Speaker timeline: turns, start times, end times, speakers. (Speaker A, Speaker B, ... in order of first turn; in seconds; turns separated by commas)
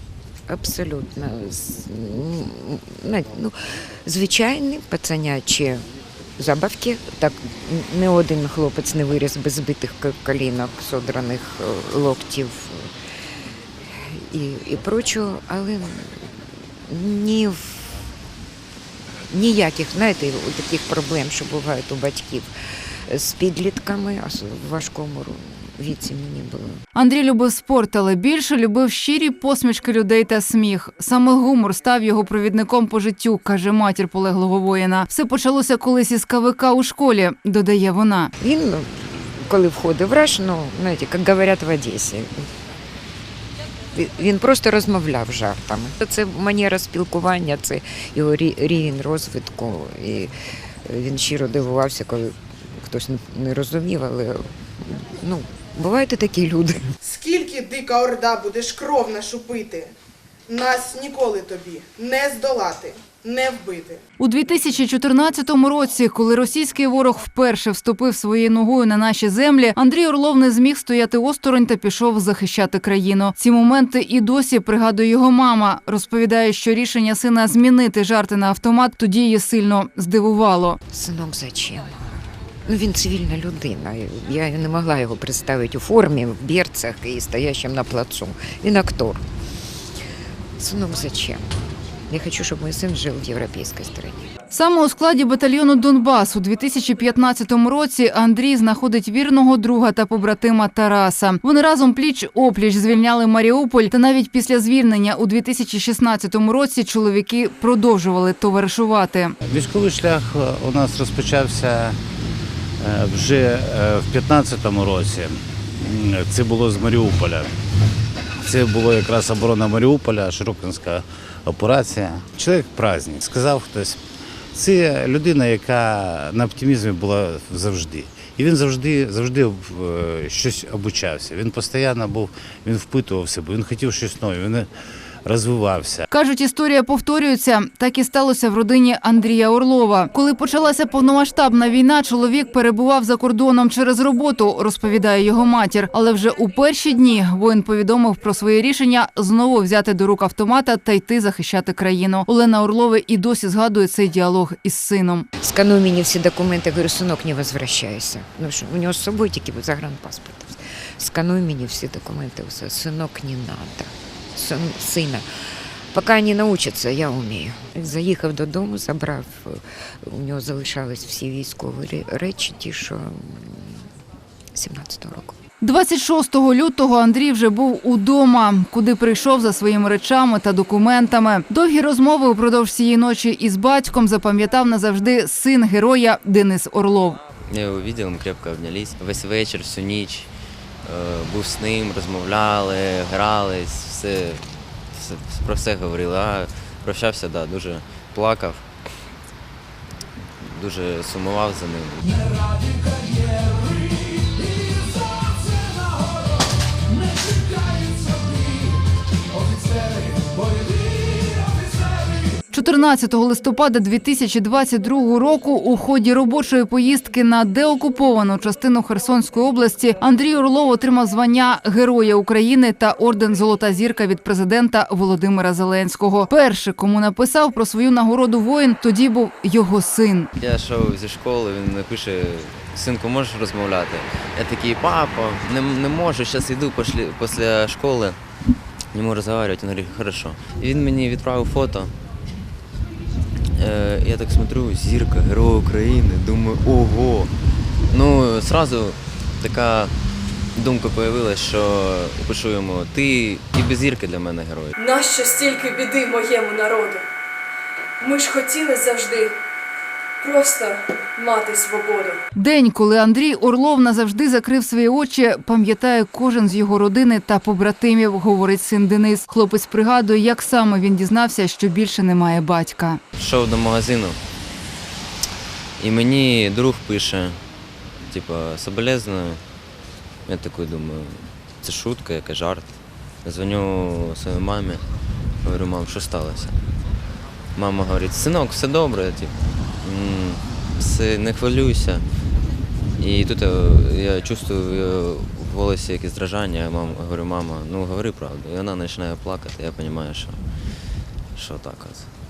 Speaker A: 0.5-3.5, Speaker A: 4.0-5.8, Speaker A: 6.4-12.9, Speaker A: 13.9-16.3, Speaker A: 16.9-18.0, Speaker A: 19.3-22.5, Speaker A: 23.1-26.8, Speaker B: 26.9-38.3, Speaker A: 38.4-42.5, Speaker A: 44.0-50.3, Speaker A: 50.9-56.8, Speaker C: 57.0-59.9, Speaker C: 60.5-64.0, Speaker B: 64.2-80.8, Speaker A: 80.9-82.1, Speaker A: 82.7-89.2, Speaker A: 90.6-91.5, Speaker A: 92.1-94.3, Speaker B: 94.5-109.3, Speaker D: 109.5-112.0, Speaker D: 112.8-117.5, Speaker D: 118.4-124.0, Speaker D: 124.5-134.7, Speaker D: 135.2-136.1, Speaker B: 136.1-155.3, Speaker A: 155.4-165.2, Speaker A: 165.9-173.8, Speaker A: 174.6-175.4, Speaker B: 175.6-187.2, Speaker E: 187.5-190.3, Speaker E: 190.8-198.6, Speaker E: 200.4-202.3, Speaker B: 212.5-230.3, Speaker E: 230.4-238.2, Speaker E: 238.9-241.9, Speaker E: 243.6-247.3, Speaker E: 247.9-249.9, Speaker E: 250.6-254.8, Speaker F: 254.8-257.1, Speaker F: 258.0-259.4, Speaker F: 260.2-262.2, Speaker B: 262.4-273.0, Speaker E: 273.2-274.2, Speaker E: 275.8-277.4, Speaker E: 278.1-279.4, Speaker E: 280.3-284.8, Speaker E: 285.4-286.6, Speaker E: 287.6-292.0, Speaker E: 293.0-300.4, Speaker E: 301.4-302.1